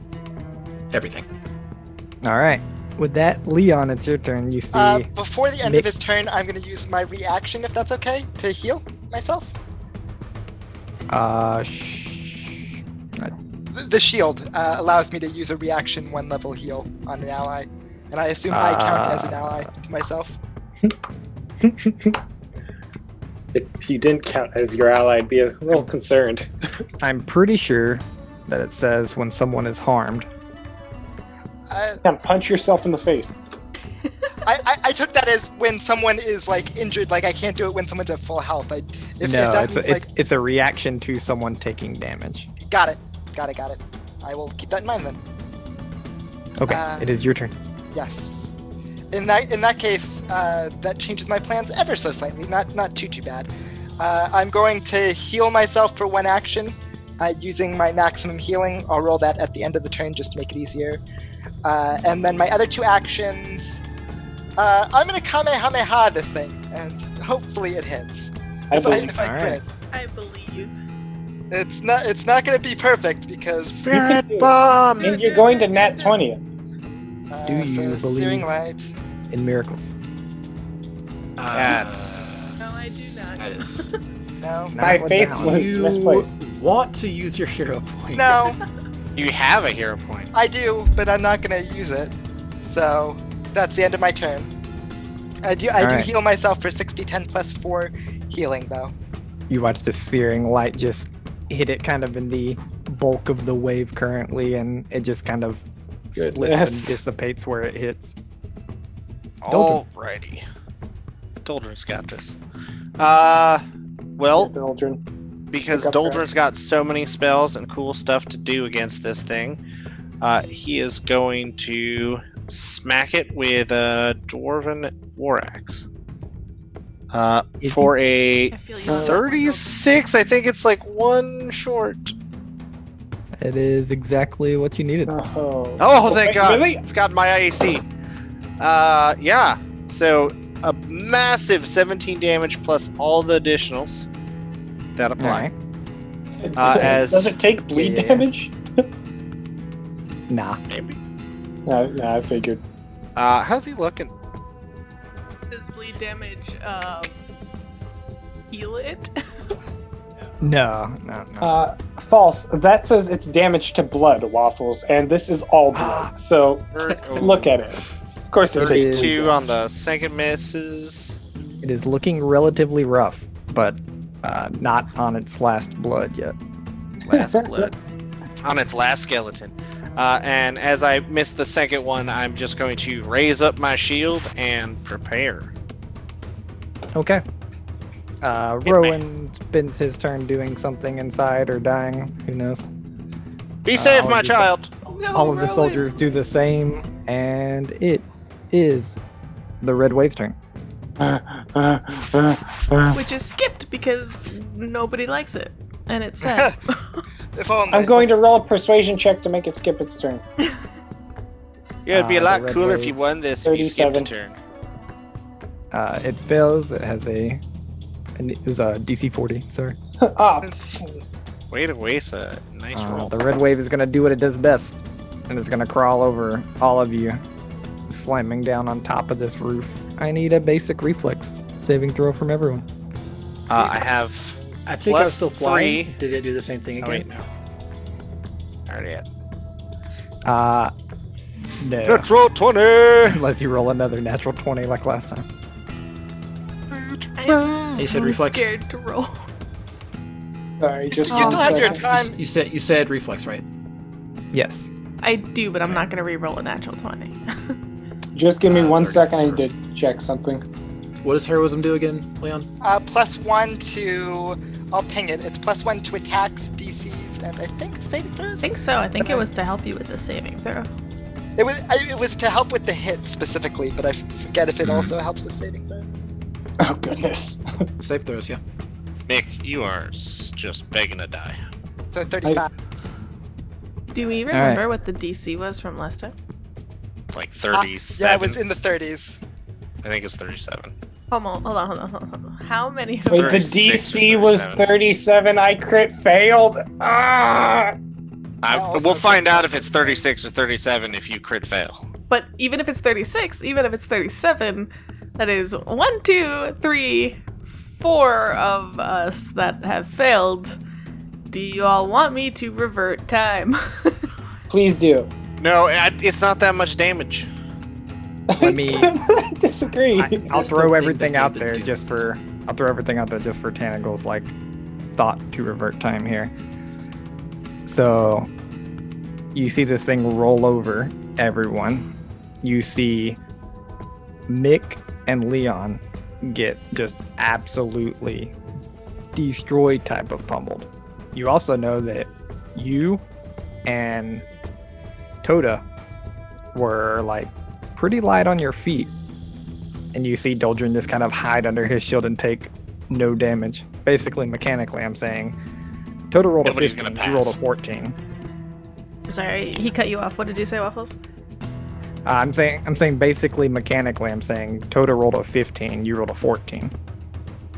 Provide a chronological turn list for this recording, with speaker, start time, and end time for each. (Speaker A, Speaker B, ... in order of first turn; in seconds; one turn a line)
Speaker A: 0.9-1.2
Speaker B: 2.2-5.1
Speaker C: 4.7-9.5
Speaker B: 5.6-5.9
Speaker B: 11.1-13.3
Speaker C: 13.7-20.4
Speaker B: 18.5-19.7
Speaker D: 21.6-22.2
Speaker D: 23.5-26.5
Speaker B: 27.0-30.3
Speaker C: 31.7-32.0
Speaker D: 32.0-33.4
Speaker C: 34.4-40.0
Speaker B: 39.2-42.5
Speaker C: 42.6-45.2
Speaker B: 46.6-47.5
Speaker C: 46.6-47.2
Speaker C: 47.9-48.5
Speaker C: 49.1-61.0
Speaker C: 61.6-63.8
Speaker C: 64.6-69.7
Speaker D: 68.7-69.1
Speaker B: 69.1-69.6
Speaker E: 69.9-70.7
Speaker C: 71.5-73.9
Speaker F: 73.6-75.1
Speaker D: 73.8-76.4
Speaker E: 75.0-76.2
Speaker C: 77.3-78.9
Speaker B: 77.4-78.5
Speaker B: 79.3-79.9
Speaker A: 81.4-83.9
Speaker F: 81.5-82.6
Speaker E: 82.6-83.9
Speaker C: 84.4-84.9
Speaker B: 84.7-85.7
Speaker D: 84.8-86.3
Speaker A: 85.3-88.4
Speaker C: 88.1-88.6
Speaker F: 89.2-90.3
Speaker C: 90.3-94.5
Speaker C: 95.4-98.9
Speaker B: 95.8-96.1
Speaker B: 99.5-108.1
Speaker D: 106.2-107.0
Speaker F: 109.4-110.4
Speaker B: 109.5-109.8
Speaker F: 111.4-112.4
Speaker F: 113.0-113.6
Speaker F: 114.2-114.5
Speaker D: 114.3-115.0
Speaker F: 115.5-119.6
Speaker D: 115.7-116.2
Speaker F: 120.2-125.8
Speaker F: 127.1-132.1
Speaker B: 127.6-127.9
Speaker E: 128.5-129.8
Speaker D: 128.9-129.2
Speaker B: 133.4-135.2
Speaker D: 135.1-136.8
Speaker F: 135.8-137.9
Speaker F: 138.6-144.1
Speaker F: 145.0-145.5
Speaker B: 145.2-145.5
Speaker D: 146.4-148.5
Speaker F: 146.6-147.3
Speaker B: 147.7-148.3
Speaker B: 150.3-150.6
Speaker F: 150.7-151.0
Speaker D: 151.7-152.6
Speaker F: 153.2-154.1
Speaker E: 155.5-157.2
Speaker E: 158.5-159.1
Speaker B: 160.4-161.5
Speaker D: 161.4-169.3
Speaker B: 165.7-166.1
Speaker F: 166.7-167.6
Speaker F: 168.5-171.2
Speaker B: 168.7-169.3
Speaker B: 171.6-176.3
Speaker B: 177.1-177.7
Speaker D: 177.1-177.5
Speaker F: 178.4-185.5
Speaker B: 186.9-187.2
Speaker B: 188.2-192.7
Speaker F: 188.6-189.0
Speaker F: 193.7-194.7
Speaker B: 193.7-194.5
Speaker E: 194.8-196.1
Speaker B: 195.1-199.0
Speaker B: 199.6-200.3
Speaker D: 201.0-203.0
Speaker E: 202.9-207.0
Speaker C: 206.2-206.6
Speaker C: 207.3-208.1
Speaker D: 207.7-210.2
Speaker F: 211.8-214.3
Speaker B: 211.9-213.0
Speaker D: 213.4-214.1
Speaker B: 215.7-217.4
Speaker B: 218.2-219.8
Speaker D: 220.0-221.0
Speaker F: 221.5-223.1
Speaker B: 222.7-227.2
Speaker B: 227.9-232.7
Speaker F: 233.5-235.9
Speaker A: 234.7-237.1
Speaker F: 238.7-239.0
Speaker B: 240.2-240.7
Speaker B: 241.6-242.1
Speaker F: 241.8-243.2
Speaker B: 243.0-245.2
Speaker F: 246.7-247.9
Speaker E: 247.2-249.2
Speaker A: 247.8-248.5
Speaker D: 250.6-251.8
Speaker C: 251.0-252.2
Speaker E: 251.1-251.6
Speaker A: 251.9-253.4
Speaker B: 254.3-254.7
Speaker E: 255.0-257.5
Speaker D: 258.1-260.4
Speaker A: 258.5-259.4
Speaker A: 261.0-262.5
Speaker C: 262.6-269.2
Speaker E: 268.4-270.7
Speaker C: 271.4-275.9
Speaker A: 274.6-274.9
Speaker D: 276.6-277.6
Speaker A: 277.8-278.4
Speaker F: 279.1-281.4
Speaker C: 281.9-282.5
Speaker E: 283.9-286.1
Speaker B: 284.3-284.6
Speaker F: 287.1-288.4
Speaker C: 287.5-289.2
Speaker F: 289.8-290.7
Speaker E: 291.1-293.5
Speaker D: 293.1-297.7
Speaker F: 293.1-294.6
Speaker F: 298.4-301.8
Speaker C: 298.5-300.0
Speaker E: 302.1-310.6
Speaker E: 311.3-314.1
Speaker D: 314.5-315.1
Speaker F: 315.4-317.3
Speaker D: 318.3-320.7
Speaker B: 318.4-319.0
Speaker B: 319.9-324.3
Speaker A: 320.4-322.0
Speaker B: 324.9-326.3
Speaker B: 327.6-328.3
Speaker B: 329.3-331.9
Speaker B: 332.4-333.2
Speaker B: 334.3-338.3
Speaker B: 339.1-343.0
Speaker B: 343.6-344.2
Speaker B: 345.2-345.6
Speaker B: 346.5-348.9
Speaker B: 349.9-355.4
Speaker B: 356.1-358.0
Speaker F: 356.4-357.4
Speaker E: 359.1-361.0
Speaker B: 362.1-366.7